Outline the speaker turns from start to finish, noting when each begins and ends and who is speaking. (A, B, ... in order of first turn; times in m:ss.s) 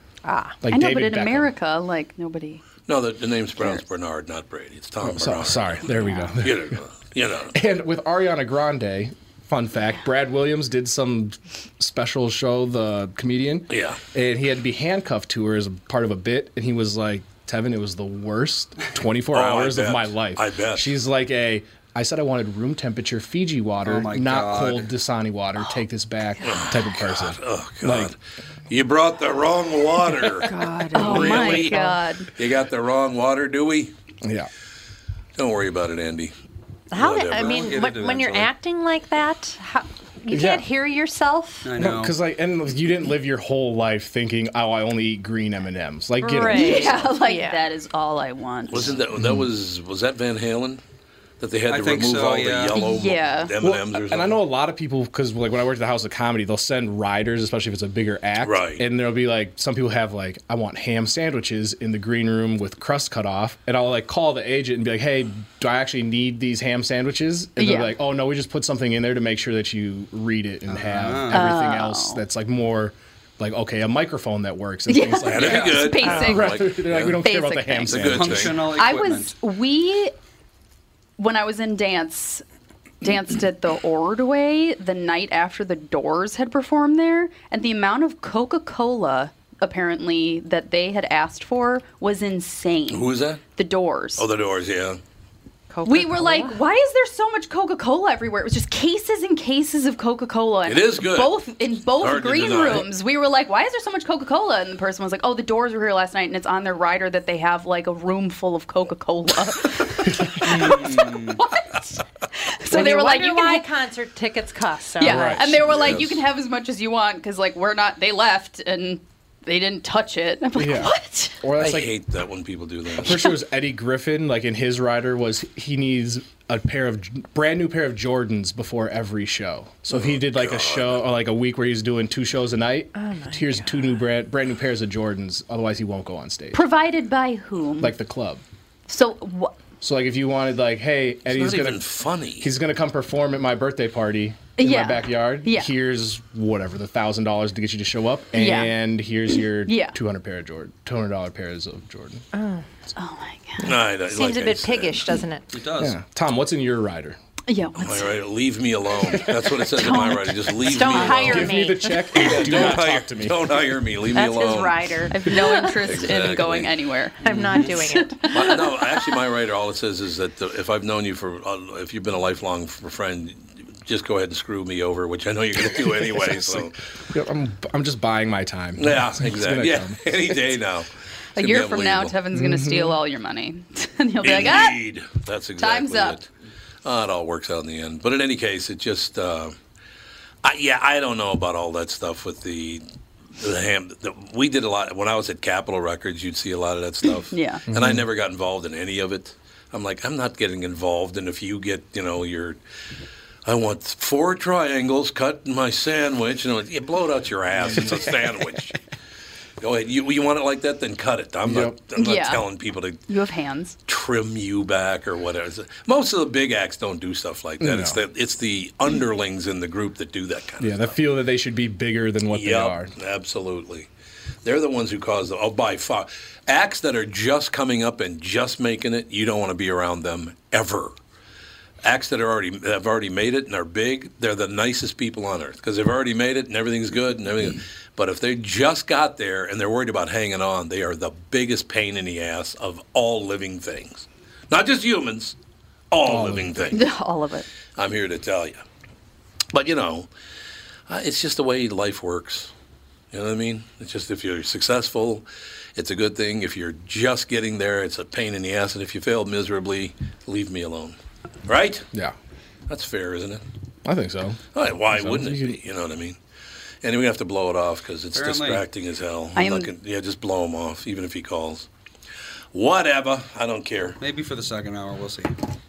0:00.2-0:00.6 A
0:00.6-0:01.5 B
0:00.7-0:02.6 C
0:02.9-0:07.6 D
0:05.0-0:06.8 B
0:07.5-0:28.1 B
0:13.7-0:14.0 D
0:19.3-0:20.9 D
0:23.8-0:24.9 E
0:26.4-0:28.2 D
0:28.7-0:31.8 D
0:30.4-0:32.0 A
0:31.0-0:32.3 C
0:32.4-0:33.9 D
0:34.2-0:34.5 B
0:35.4-0:36.3 D
0:36.9-0:41.7 A
0:36.9-0:37.7 D
0:37.3-0:38.5 E
0:40.3-0:40.6 B
0:41.6-0:42.2 E
0:41.8-0:47.0 B
0:46.2-0:47.6 A
0:46.5-0:48.9 C
0:48.7-0:50.8 D
0:49.2-0:49.5 B
0:51.4-0:54.4 D
0:51.7-0:52.8 E
0:52.7-0:53.5 C
0:53.6-1:18.5 B
0:58.4-0:58.8 D
1:07.6-1:07.9 C
1:10.7-1:11.5 E
1:11.3-1:12.2 C
1:14.9-1:16.7 C
1:15.3-1:17.2 D
1:15.4-1:15.8 E
1:17.2-1:20.1 C
1:17.9-1:18.8 D
1:17.9-1:19.4 E
1:21.2-1:22.4 C
1:23.0-1:34.3 C
1:32.9-1:33.4 D
1:34.2-1:35.0 D
1:35.7-1:36.6 A
1:35.8-1:53.6 C
1:40.7-1:41.4 D
1:42.0-1:42.9 D
1:50.4-1:51.4 E
1:52.7-1:55.4 A
1:55.0-2:01.4 C
1:55.0-1:55.6 B
1:55.6-1:56.2 D
2:00.6-2:01.9 B
2:01.6-2:03.2 D
2:03.0-2:16.6 B
2:09.9-2:11.0 D
2:13.0-2:14.0 A
2:16.5-2:17.9 C
2:17.8-2:18.4 B
2:18.9-2:19.6 C
2:19.8-2:21.8 B
2:21.3-2:22.5 D
2:22.4-2:32.2 B
2:24.6-2:25.7 C
2:28.4-2:28.7 C
2:29.6-2:30.0 C
2:32.3-2:32.6 A
2:33.0-2:33.7 C
2:33.6-2:35.1 D
2:34.1-2:35.5 A
2:35.5-2:36.0 E
2:35.8-2:37.2 B
2:37.5-2:38.1 C
2:37.8-2:41.6 D
2:39.7-2:40.8 C
2:40.7-2:42.3 A
2:41.0-2:43.5 B
2:42.1-2:44.9 D
2:44.1-2:45.8 A
2:45.1-2:49.1 C
2:45.8-2:46.7 D
2:47.2-2:48.2 A
2:47.3-2:47.9 E
2:48.3-2:56.8 D
2:55.8-3:00.4 B
2:58.8-3:02.2 D
3:01.4-3:04.8 C
3:02.3-3:03.0 B
3:04.2-3:06.3 D
3:05.6-3:06.2 C
3:06.8-3:09.6 D
3:10.4-3:12.8 D
3:13.4-3:22.6 D
3:17.3-3:17.6 C
3:17.7-3:18.0 B
3:23.4-3:28.8 D
3:29.6-3:33.0 D
3:31.5-3:31.8 B
3:32.0-3:32.5 C
3:33.1-3:33.8 C
3:33.9-3:41.0 D
3:37.6-3:38.0 B
3:40.6-3:42.9 B
3:42.3-3:43.9 D
3:44.4-3:51.0 D
3:51.8-4:05.4 D
4:05.9-4:06.9 D
4:06.0-4:06.7 B
4:06.7-4:07.5 C
4:07.8-4:08.6 D
4:09.5-4:10.1 D
4:10.9-4:12.5 D
4:13.1-4:21.9 D
4:22.7-4:23.4 D
4:23.8-4:25.6 B
4:24.6-4:26.2 D
4:26.8-4:31.7 D
4:28.1-4:28.6 E
4:29.4-4:29.7 C
4:32.5-4:34.0 D
4:34.0-4:35.4 E